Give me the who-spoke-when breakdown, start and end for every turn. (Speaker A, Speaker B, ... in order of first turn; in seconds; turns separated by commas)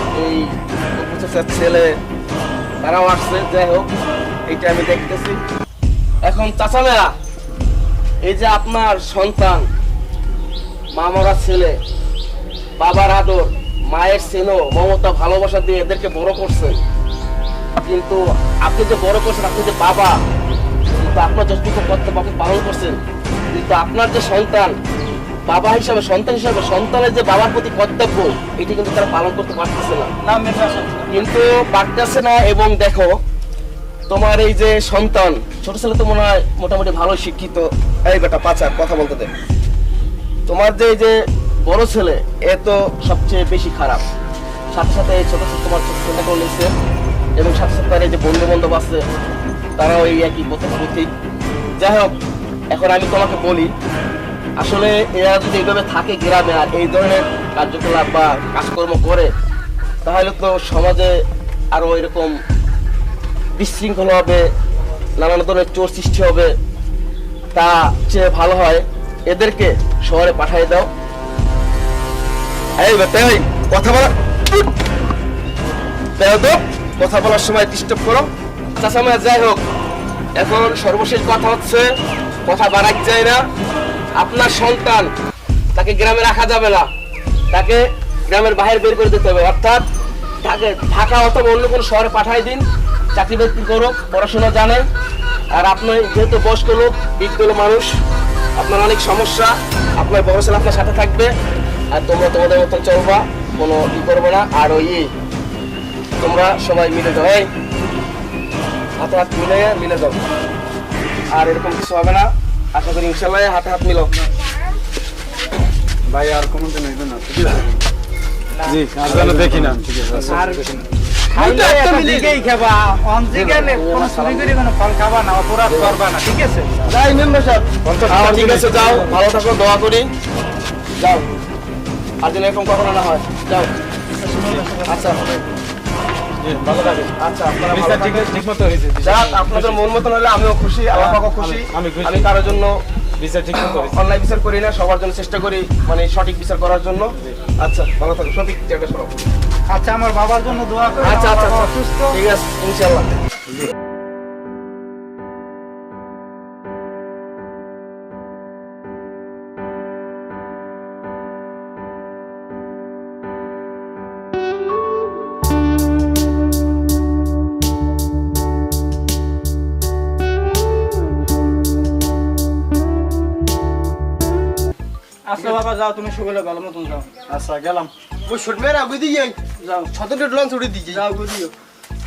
Speaker A: 0.2-1.9, Speaker A: 2.8-3.9, Speaker A: 4.5-5.4, Speaker A: 6.2-7.1, Speaker A: 8.2-9.6, Speaker A: 10.9-11.8, Speaker A: 12.8-16.8, Speaker A: 17.8-20.2, Speaker A: 21.0-23.0, Speaker A: 23.5-24.7, Speaker A: 25.5-30.1, Speaker B: 30.2-31.1, Speaker A: 31.1-33.1, Speaker A: 34.1-39.3, Speaker A: 40.5-44.0, Speaker A: 44.7-46.7, Speaker A: 47.4-49.0, Speaker A: 49.8-51.1, Speaker A: 51.8-52.1, Speaker A: 52.7-53.7, Speaker A: 54.6-59.3, Speaker A: 60.0-61.2, Speaker A: 61.7-62.4, Speaker A: 63.6-64.5, Speaker A: 65.2-66.5, Speaker A: 67.5-70.9, Speaker A: 72.8-74.1, Speaker A: 76.2-78.3, Speaker A: 78.8-79.6, Speaker A: 80.4-81.9, Speaker A: 82.5-83.4, Speaker A: 84.2-85.1, Speaker A: 85.8-86.9, Speaker A: 87.5-89.8, Speaker A: 90.4-92.6, Speaker A: 93.2-94.8, Speaker A: 95.5-97.9, Speaker A: 98.6-101.3, Speaker A: 101.9-105.1, Speaker A: 106.2-107.5, Speaker A: 109.0-110.2, Speaker A: 111.3-114.1, Speaker C: 116.1-117.6, Speaker D: 118.6-118.8, Speaker C: 118.7-120.6, Speaker D: 120.2-120.8, Speaker D: 121.3-126.9, Speaker E: 121.4-122.2, Speaker A: 123.5-124.5, Speaker A: 126.9-130.1, Speaker C: 127.8-129.2, Speaker A: 131.0-131.3, Speaker A: 132.2-133.7, Speaker A: 134.7-135.3, Speaker C: 136.4-137.1, Speaker A: 137.2-138.4, Speaker C: 137.7-139.9, Speaker A: 139.0-142.7, Speaker C: 140.9-142.6, Speaker C: 143.2-143.9, Speaker A: 143.5-147.1, Speaker A: 147.6-149.1, Speaker D: 149.7-152.2, Speaker A: 151.0-153.2, Speaker B: 175.3-177.1, Speaker E: 178.3-179.4, Speaker B: 179.6-179.9, Speaker E: 179.9-181.0, Speaker B: 180.9-181.5